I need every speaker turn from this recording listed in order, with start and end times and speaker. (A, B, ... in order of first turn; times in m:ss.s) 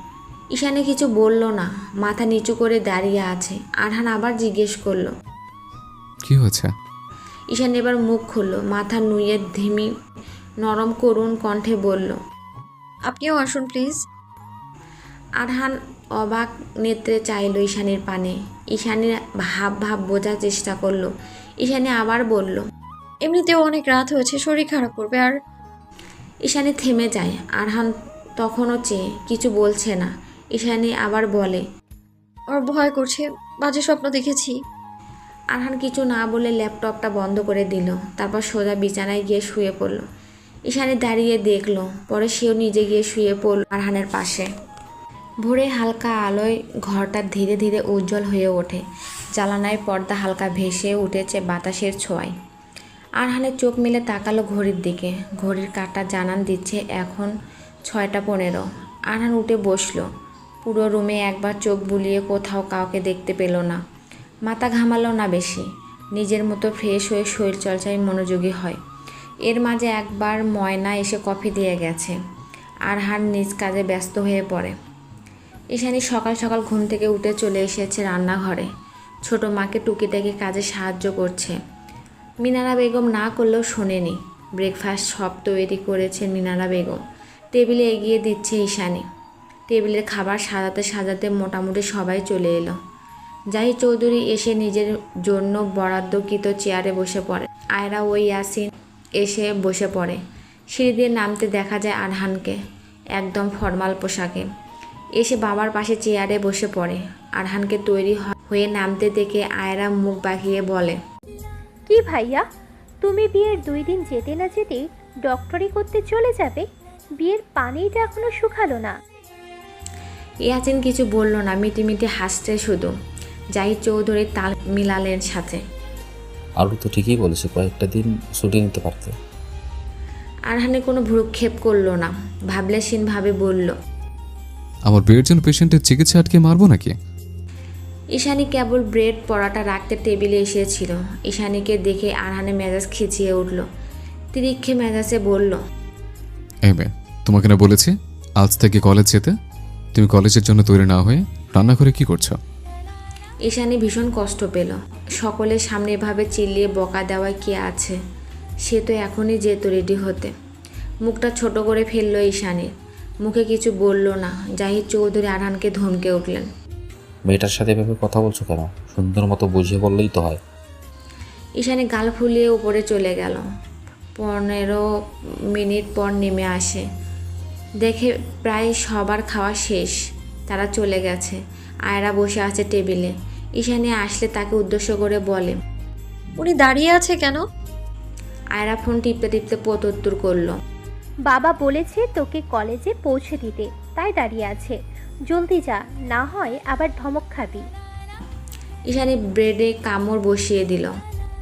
0:00.5-0:05.1 A
0:06.2-0:06.7 B
0:07.5-0:09.9 A
0:10.6-0:12.2 A
0:13.1-0:14.0 C
0:15.4-0:21.1 A
0:21.6-0:22.6 A
0:23.2-0:25.3 C
0:26.4-0:31.6 A
0:32.5-0:34.5 C
0:35.5-0:40.0 A
0:40.7-0:44.5 A
0:45.4-0:48.8 A
0:49.4-0:52.3 A
0:53.2-0:57.3 A
0:57.9-1:00.0 A
1:00.6-1:03.8 A
1:04.5-1:08.8 A
1:09.5-1:12.2 A
1:12.9-1:14.7 A
1:15.7-1:18.7 A
1:19.2-1:21.6 A
1:22.4-1:27.0 A
1:27.5-1:29.0 A
1:29.7-1:32.8 A
1:33.5-1:38.7 A
1:39.2-1:40.2 A
1:40.7-1:42.6 A
1:43.2-1:44.4 A
1:45.2-1:51.0 A
1:51.9-1:52.4 D
1:53.0-1:56.6 D
1:57.2-1:58.9 D
2:00.4-2:02.9 A
2:03.6-2:05.6 A
2:06.6-2:09.1 E
2:10.5-2:13.7 A
2:14.9-2:16.9 B
2:18.2-2:23.6 A
2:24.3-2:25.6 A
2:26.6-2:29.3 B
2:29.9-2:32.4 B
2:33.4-2:38.0 A
2:38.6-2:40.3 A
2:41.0-2:42.7 A
2:43.2-2:46.4 A
2:47.3-2:50.4 E
2:51.6-2:53.4 A
2:54.2-2:54.8 A
2:55.5-2:56.8 A
2:57.8-3:00.0 A
3:00.5-3:01.4 A
3:01.9-3:05.6 A
3:06.4-3:07.4 C
3:08.6-3:10.5 A
3:11.3-3:14.8 D
3:15.3-3:17.7 D
3:18.9-3:20.9 A